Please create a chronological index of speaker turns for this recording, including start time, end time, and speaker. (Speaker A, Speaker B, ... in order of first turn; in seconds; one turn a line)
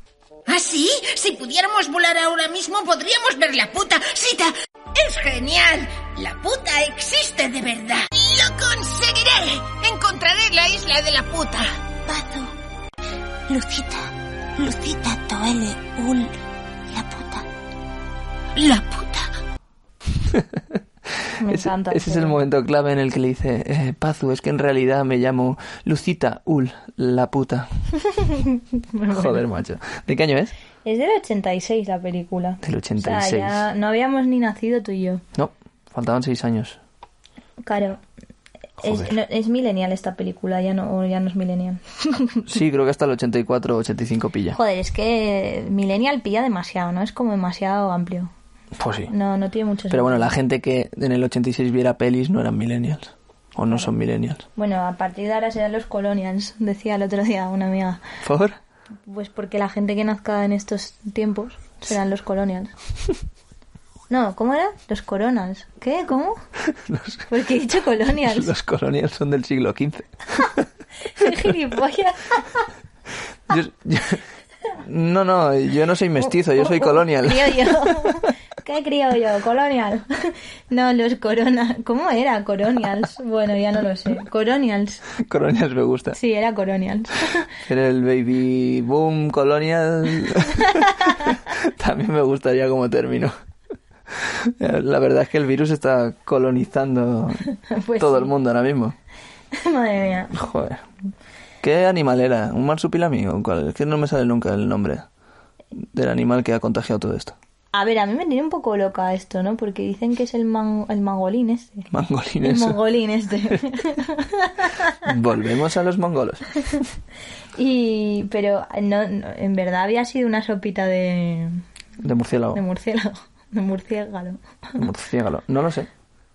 Speaker A: 0.5-11.7
Speaker B: 12.1-12.5
Speaker B: 13.5-16.4
Speaker B: 16.9-17.4
Speaker A: 18.6-19.2
Speaker C: 20.1-27.8
Speaker D: 21.4-22.4
Speaker D: 28.0-29.4
Speaker C: 29.1-30.5
Speaker D: 30.8-35.2
Speaker C: 32.6-33.6
Speaker C: 35.3-36.8
Speaker D: 37.6-38.0
Speaker D: 38.8-42.4
Speaker C: 38.8-39.1
Speaker C: 42.5-44.6
Speaker D: 44.5-48.3
Speaker C: 48.8-49.1
Speaker D: 49.1-50.3
Speaker C: 49.9-54.4
Speaker D: 54.5-58.0
Speaker C: 58.2-58.6
Speaker D: 59.0-62.7
Speaker D: 64.1-66.4
Speaker C: 66.7-67.3
Speaker D: 67.3-68.5
Speaker C: 68.2-70.6
Speaker D: 71.1-72.7
Speaker C: 73.5-78.2
Speaker D: 76.2-85.0
Speaker C: 85.2-86.2
Speaker D: 86.1-87.5
Speaker C: 87.7-93.3
Speaker C: 94.1-97.4
Speaker D: 97.7-98.3
Speaker C: 98.0-99.0
Speaker D: 99.5-100.3
Speaker C: 100.3-100.8
Speaker C: 101.6-105.0
Speaker C: 105.8-107.3
Speaker D: 107.7-111.9
Speaker C: 111.9-112.8
Speaker D: 112.4-115.0
Speaker C: 115.0-116.8
Speaker D: 117.5-121.6
Speaker C: 122.0-122.6
Speaker D: 122.5-124.8
Speaker C: 124.8-125.9